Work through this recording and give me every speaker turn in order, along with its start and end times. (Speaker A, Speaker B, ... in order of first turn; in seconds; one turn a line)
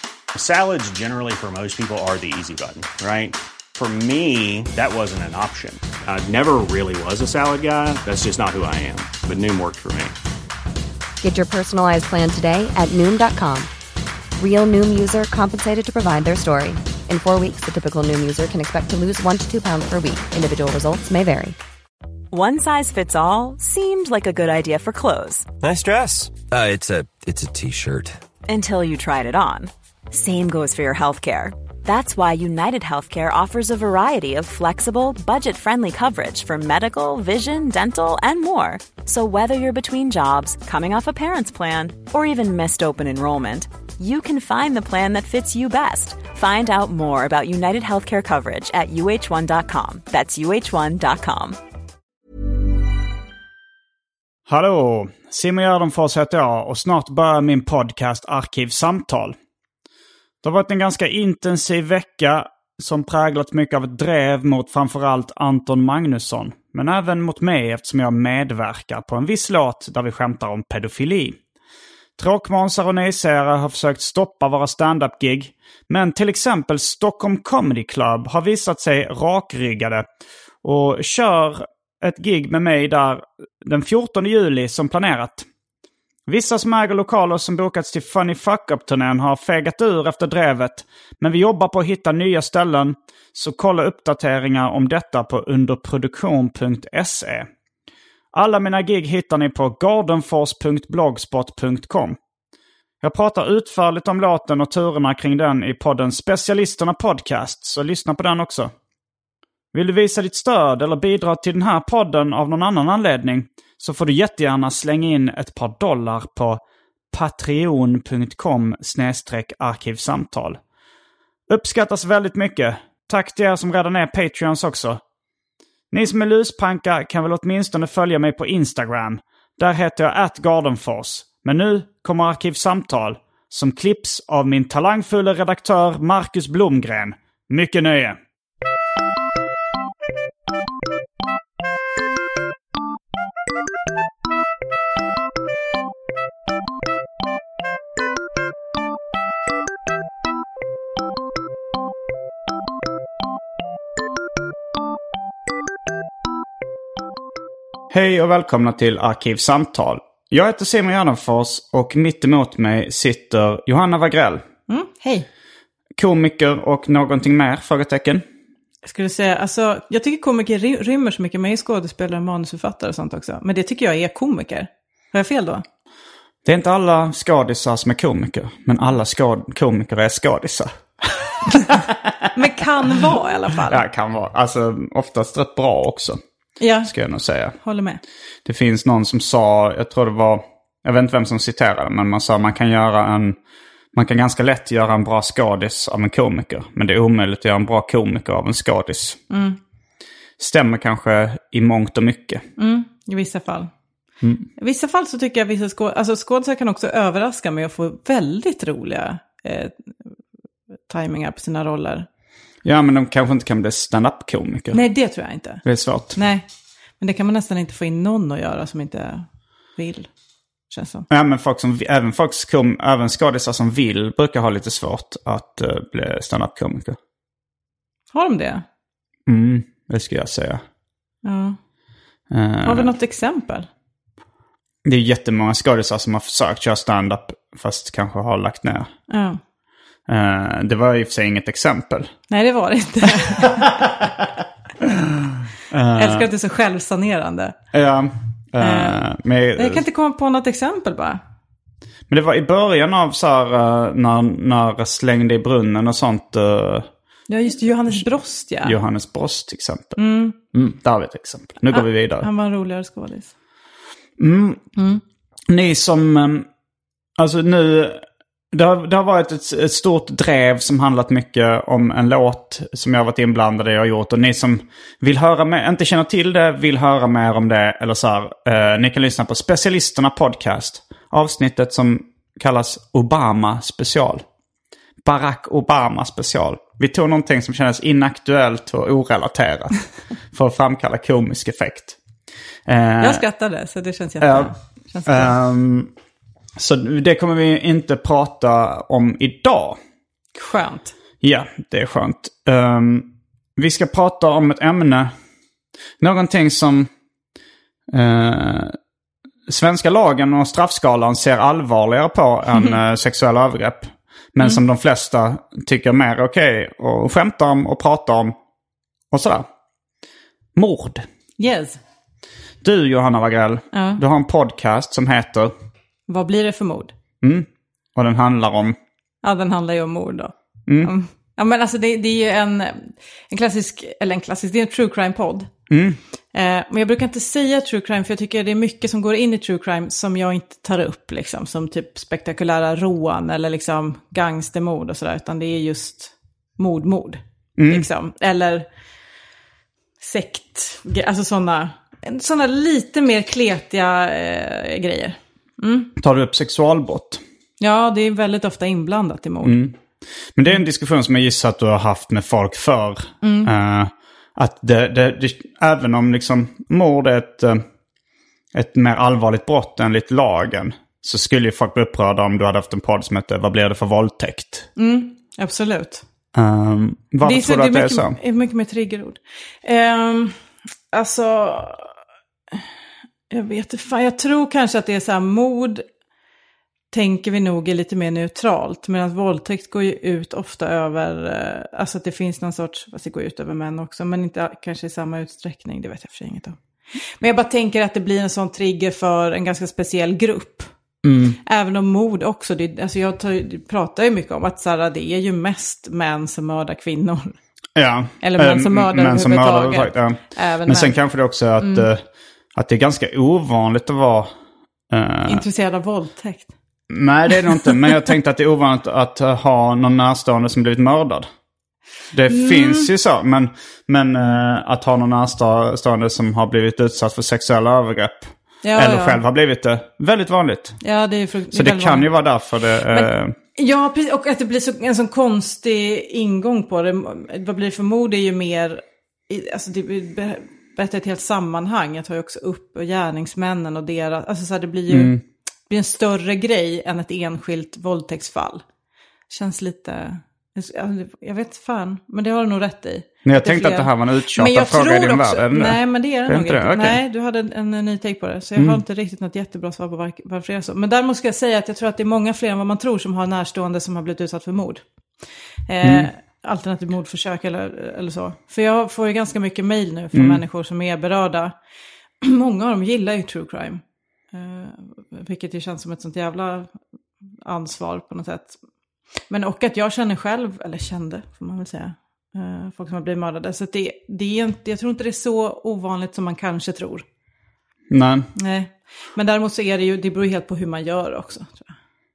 Speaker A: 0.3-10.1
Speaker B: 11.2-13.7
Speaker B: 14.4-21.6
Speaker C: 22.3-25.5
Speaker D: 25.6-28.2
Speaker C: 28.5-51.6
Speaker E: 54.5-59.4
Speaker E: 60.4-71.4
Speaker E: 72.2-80.1
Speaker E: 80.6-85.5
Speaker E: 86.3-97.5
Speaker E: 98.3-102.2
Speaker E: 103.0-108.7
Speaker E: 109.7-120.6
Speaker E: 121.5-125.0
Speaker E: 125.9-138.2
Speaker E: 157.9-164.4
Speaker F: 164.7-165.3
Speaker E: 166.0-168.2
Speaker F: 168.9-175.6
Speaker E: 176.4-182.1
Speaker F: 182.3-183.8
Speaker E: 183.7-186.2
Speaker F: 186.6-186.9
Speaker E: 186.9-187.6
Speaker F: 187.6-188.0
Speaker E: 188.4-193.4
Speaker E: 193.9-199.2
Speaker F: 199.3-199.6
Speaker E: 200.4-202.4
Speaker F: 202.6-203.7
Speaker E: 204.2-204.5
Speaker F: 204.6-210.1
Speaker F: 210.9-212.1
Speaker E: 212.6-214.8
Speaker F: 214.7-216.5
Speaker E: 215.6-216.2
Speaker F: 217.0-220.1
Speaker F: 220.7-221.1
Speaker E: 221.1-227.0
Speaker F: 228.1-228.7
Speaker E: 229.3-230.6
Speaker F: 231.2-231.6
Speaker E: 232.3-232.9
Speaker F: 232.6-233.7
Speaker E: 234.8-238.9
Speaker F: 239.1-239.4
Speaker E: 240.1-242.1
Speaker F: 242.3-243.8
Speaker E: 243.5-244.1
Speaker E: 244.8-246.3
Speaker F: 245.9-247.6
Speaker E: 247.7-249.8
Speaker F: 248.6-251.2
Speaker E: 252.1-256.9
Speaker F: 257.3-258.8
Speaker E: 258.6-260.0
Speaker F: 260.0-260.4
Speaker E: 260.5-262.3
Speaker F: 261.7-263.3
Speaker E: 264.2-264.6
Speaker F: 264.8-265.0
Speaker E: 265.5-266.5
Speaker E: 267.2-284.2
Speaker E: 285.0-289.8
Speaker E: 290.3-292.0
Speaker E: 292.7-293.2
Speaker F: 293.0-295.3
Speaker E: 294.2-294.5
Speaker E: 295.1-295.9
Speaker E: 296.6-299.8
Speaker F: 300.4-300.9
Speaker E: 301.2-305.1
Speaker E: 306.0-306.9
Speaker E: 307.9-308.8
Speaker E: 309.5-318.4
Speaker E: 319.1-319.5
Speaker E: 320.6-321.1
Speaker F: 321.4-321.8
Speaker E: 322.6-325.5
Speaker F: 323.7-324.0
Speaker F: 326.1-326.9
Speaker E: 327.2-328.8
Speaker F: 329.2-335.5
Speaker E: 330.7-330.9
Speaker E: 335.7-336.0
Speaker F: 336.3-348.7
Speaker E: 347.6-347.9
Speaker F: 350.0-355.9
Speaker E: 356.0-357.2
Speaker F: 357.6-359.6
Speaker E: 359.4-359.8
Speaker E: 360.4-367.6
Speaker F: 363.2-363.5
Speaker E: 368.5-374.7
Speaker F: 374.8-376.0
Speaker E: 376.3-378.2
Speaker F: 377.2-380.4
Speaker F: 380.9-381.9
Speaker F: 383.3-385.9
Speaker F: 386.9-396.6
Speaker F: 397.2-400.7
Speaker E: 401.0-401.4
Speaker F: 401.5-407.4
Speaker E: 407.8-414.3
Speaker F: 408.2-411.0
Speaker F: 411.6-411.9
Speaker E: 414.9-415.4
Speaker F: 415.2-416.5
Speaker E: 416.9-421.3
Speaker E: 422.1-430.8
Speaker F: 422.3-422.9
Speaker F: 428.6-429.2
Speaker F: 430.8-432.1
Speaker E: 431.5-433.4
Speaker F: 432.9-445.2
Speaker E: 444.9-445.2
Speaker F: 445.7-448.6
Speaker F: 449.3-464.9
Speaker E: 453.2-457.0
Speaker E: 458.6-458.8
Speaker F: 465.7-471.5
Speaker E: 465.8-466.1
Speaker E: 470.1-470.4
Speaker F: 472.2-476.7
Speaker F: 477.4-478.6
Speaker F: 479.3-487.0
Speaker E: 487.9-488.3
Speaker F: 488.4-491.7